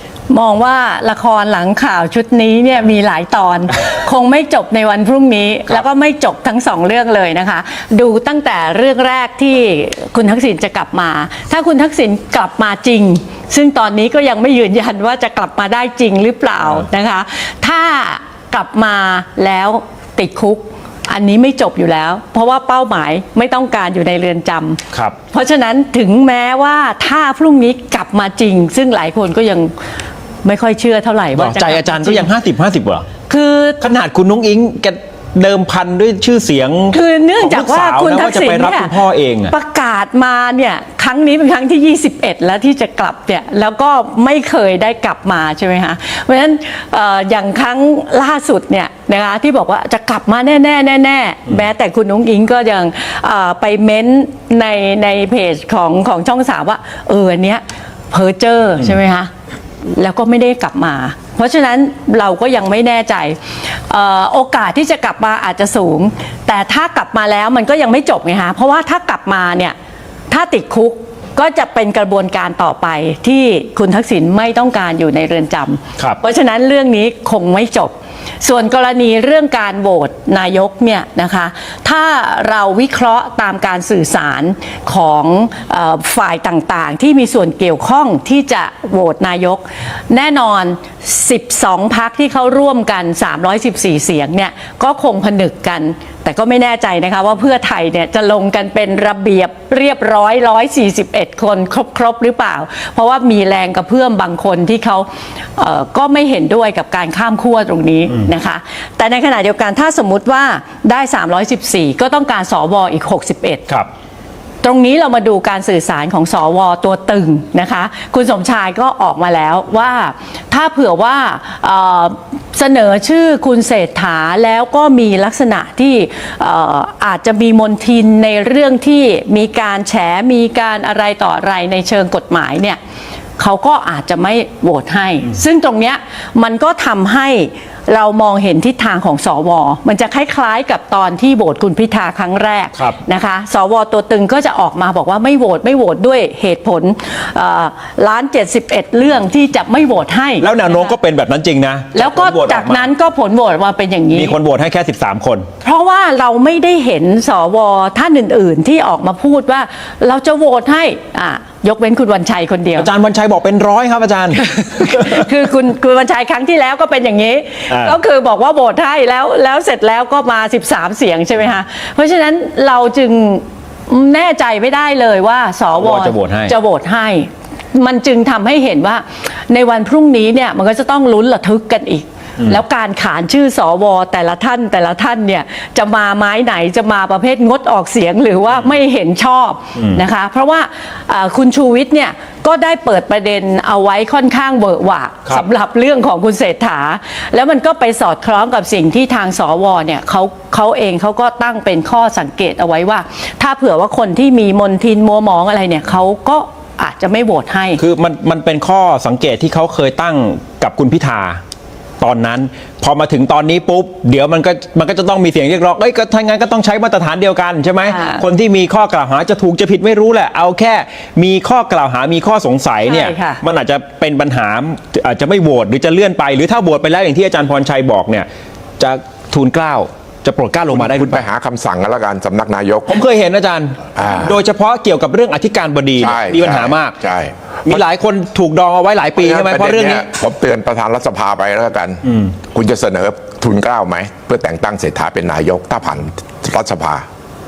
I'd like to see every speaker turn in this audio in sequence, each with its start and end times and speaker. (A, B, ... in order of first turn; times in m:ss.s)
0:00.3-0:24.8 A
0:25.3-0:29.7 A
0:30.4-0:32.3 A
0:31.3-0:33.0 B
0:33.3-0:33.8 A
0:33.8-0:39.5 B
0:36.9-0:38.9 A
0:39.5-0:59.3 A
0:59.9-1:03.4 A
1:03.9-1:09.7 A
1:10.3-1:53.6 A
1:54.6-2:12.8 A
2:13.4-2:31.0 A
2:30.4-2:32.9 B
2:31.9-2:34.4 A
2:34.1-2:35.5 B
2:35.6-2:42.9 A
2:42.8-2:45.2 B
2:44.6-3:27.8 A
2:47.7-2:48.0 B
2:55.7-2:56.5 B
3:27.8-3:31.4 B
3:32.0-3:48.3 B
3:37.8-3:38.2 A
3:42.8-3:43.4 A
3:48.8-3:51.2 B
3:50.7-3:53.0 C
3:52.9-3:57.0 B
3:54.0-3:54.3 C
3:56.0-3:57.8 C
3:57.6-4:00.1 B
3:59.2-4:07.0 C
4:02.0-4:02.3 B